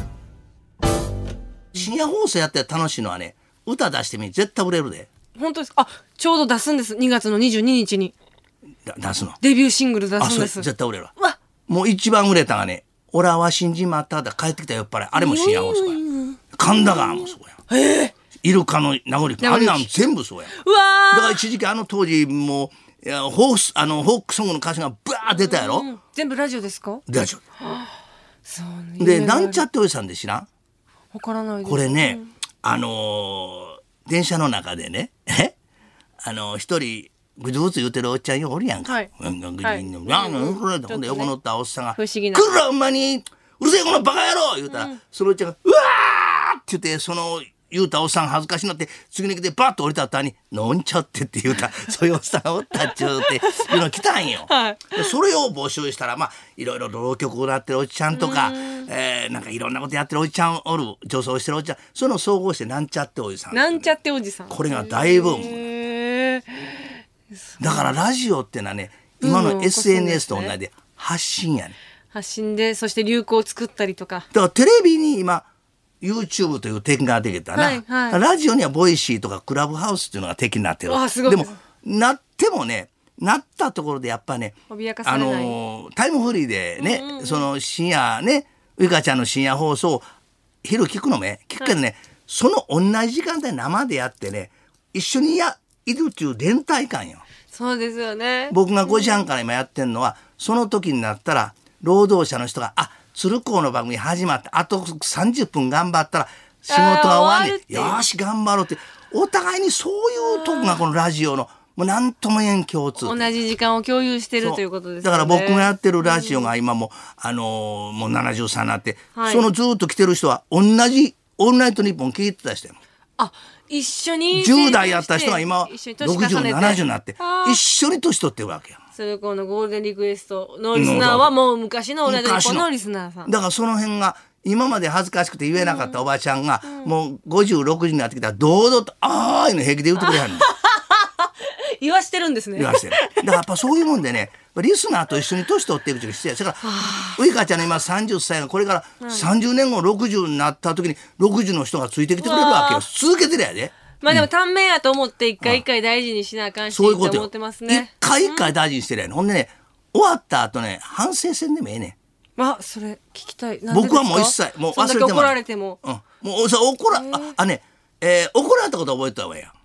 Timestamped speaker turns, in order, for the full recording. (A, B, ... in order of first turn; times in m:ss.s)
0:01.7-0:05.1 A
0:05.4-0:08.1 B
0:08.8-0:09.4 A
0:09.4-0:10.7 B
0:10.2-0:11.1 A
0:11.7-0:16.0 A
0:15.1-0:18.1 B
0:16.5-0:17.6 A
0:18.3-0:20.5 A
0:19.4-0:19.9 B
0:20.5-0:21.4 B
0:21.1-0:25.9 A
0:25.3-0:27.0 B
0:27.1-0:27.4 A
0:27.6-0:27.9 B
0:28.4-0:29.6 B
0:29.0-0:30.5 A
0:31.1-0:32.3 B
0:31.6-0:35.5 A
0:36.2-1:03.9 A
0:39.6-0:41.3 B
0:42.0-0:42.5 B
0:44.7-0:45.0 B
0:53.0-0:53.8 B
0:54.4-0:55.1 B
0:58.1-0:58.9 B
1:03.5-1:07.0 B
1:04.5-1:05.6 A
1:07.5-1:07.9 B
1:07.6-1:11.8 A
1:09.2-1:10.6 B
1:12.1-1:14.2 B
1:14.3-1:15.5 A
1:16.0-1:30.0 A
1:17.6-1:18.2 B
1:20.8-1:21.6 B
1:24.7-1:25.6 B
1:26.8-1:27.4 B
1:30.6-1:37.2 A
1:37.5-1:39.2 B
1:38.5-1:53.3 A
1:46.7-1:48.0 B
1:50.2-1:50.8 B
1:53.0-1:56.5 B
1:54.4-2:02.8 A
1:59.1-1:59.5 B
2:03.2-2:07.6 B
2:04.3-2:08.8 A
2:08.9-2:13.3 B
2:10.7-2:11.3 A
2:12.0-2:12.7 A
2:13.2-2:20.5 A
2:15.6-2:16.0 B
2:16.6-2:16.9 B
2:20.0-2:23.4 B
2:22.6-2:34.2 A
2:26.6-2:27.2 B
2:29.0-2:29.3 B
2:32.2-2:32.8 B
2:34.0-2:38.5 B
2:36.7-2:42.0 A
2:42.4-2:45.8 B
2:43.7-2:49.5 A
2:46.9-2:47.3 B